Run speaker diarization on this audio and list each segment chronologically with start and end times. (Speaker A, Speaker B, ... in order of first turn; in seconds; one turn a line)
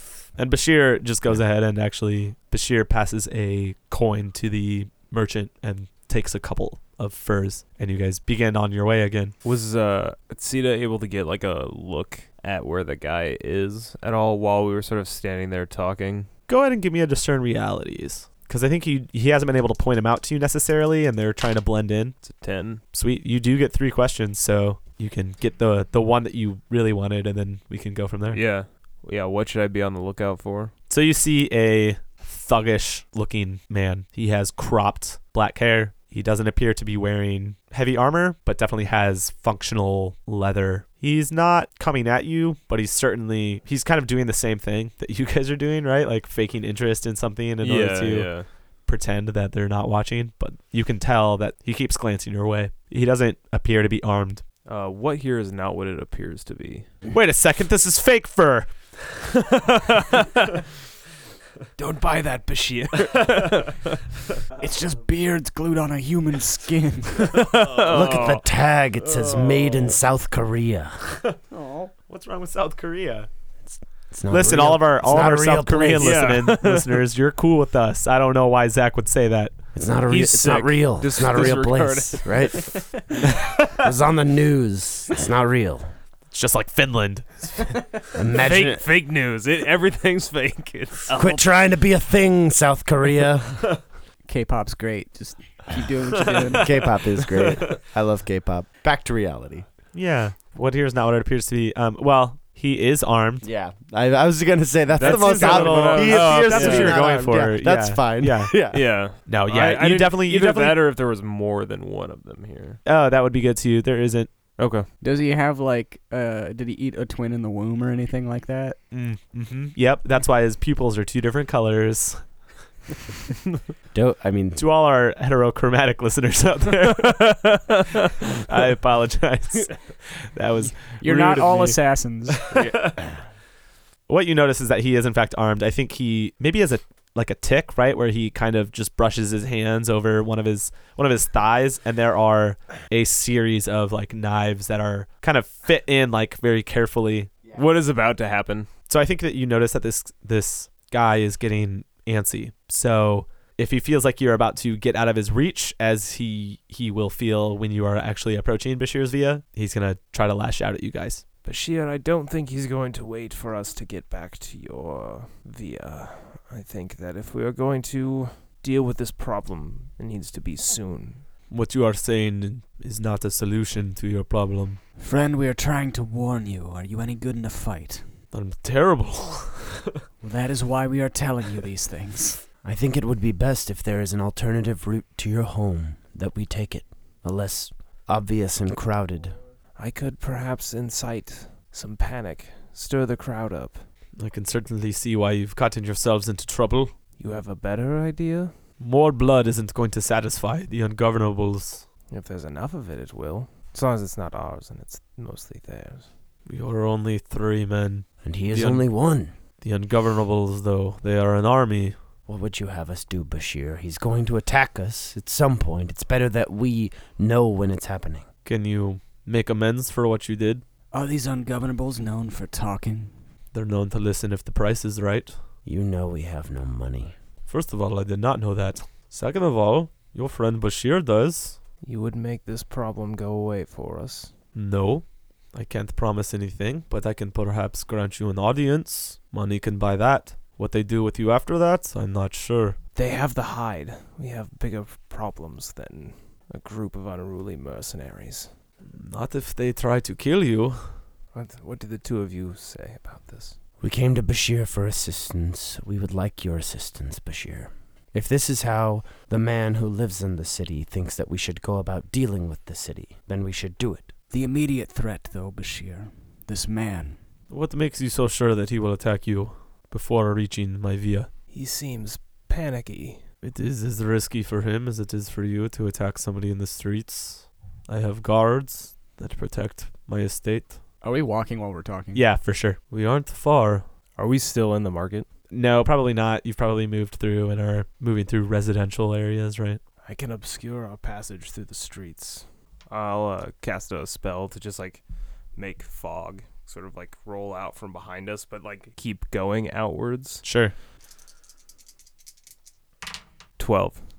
Speaker A: 0.3-9.3
Speaker B: 9.4-16.3
Speaker A: 16.5-22.4
Speaker B: 22.2-22.8
Speaker A: 22.9-28.4
Speaker B: 28.3-30.7
Speaker A: 30.9-54.4
Speaker B: 47.6-48.5
Speaker B: 54.6-56.9
Speaker A: 57.1-58.9
Speaker B: 59.4-60.4
Speaker B: 61.8-64.0
Speaker C: 64.6-67.4
Speaker B: 67.2-68.5
Speaker D: 67.8-71.2
Speaker B: 69.3-69.8
Speaker C: 71.5-71.9
Speaker A: 72.1-73.3
Speaker D: 73.7-76.5
Speaker A: 74.3-79.6
Speaker B: 76.0-77.1
Speaker D: 79.7-85.9
Speaker B: 80.1-82.9
Speaker A: 86.3-87.9
Speaker D: 88.1-88.8
Speaker B: 88.4-91.2
Speaker D: 91.1-93.8
Speaker C: 94.2-97.0
Speaker D: 96.6-99.7
Speaker A: 99.9-103.5
Speaker D: 103.4-108.9
Speaker B: 104.9-107.1
Speaker A: 105.0-110.8
Speaker C: 106.5-106.8
Speaker B: 108.7-112.8
Speaker A: 112.8-114.3
Speaker B: 114.6-114.9
Speaker C: 115.0-118.8
Speaker A: 118.9-122.5
Speaker D: 123.9-124.6
Speaker A: 124.6-127.7
Speaker B: 127.1-127.8
Speaker A: 128.4-133.1
Speaker C: 130.7-132.4
Speaker B: 132.5-133.1
Speaker A: 134.1-147.4
Speaker B: 147.5-148.7
Speaker A: 148.9-161.2
Speaker B: 161.4-171.3
Speaker A: 171.5-174.8
Speaker C: 175.0-178.1
Speaker A: 178.3-179.8
Speaker C: 180.2-182.4
Speaker D: 182.6-189.4
Speaker B: 189.8-193.8
Speaker A: 194.2-196.9
Speaker B: 197.2-198.6
Speaker A: 198.8-201.9
Speaker B: 202.1-206.1
Speaker A: 206.5-208.9
Speaker D: 208.2-209.3
Speaker A: 209.6-212.0
Speaker D: 212.3-218.3
Speaker A: 218.4-220.6
Speaker C: 220.9-223.2
Speaker A: 223.5-225.4
Speaker D: 225.7-227.2
Speaker A: 227.5-231.6
Speaker B: 231.8-234.3
Speaker A: 234.5-242.8
Speaker B: 242.9-248.6
Speaker A: 248.8-251.0
Speaker B: 251.3-253.6
Speaker D: 253.8-264.1
Speaker C: 264.3-267.2
Speaker A: 267.5-271.3
Speaker B: 271.5-273.3
Speaker A: 273.4-280.8
Speaker C: 281.0-282.2
Speaker A: 282.1-283.9
Speaker B: 284.2-285.3
Speaker A: 285.5-289.8
Speaker B: 290.0-300.4
Speaker A: 300.4-300.7
Speaker B: 303.6-304.0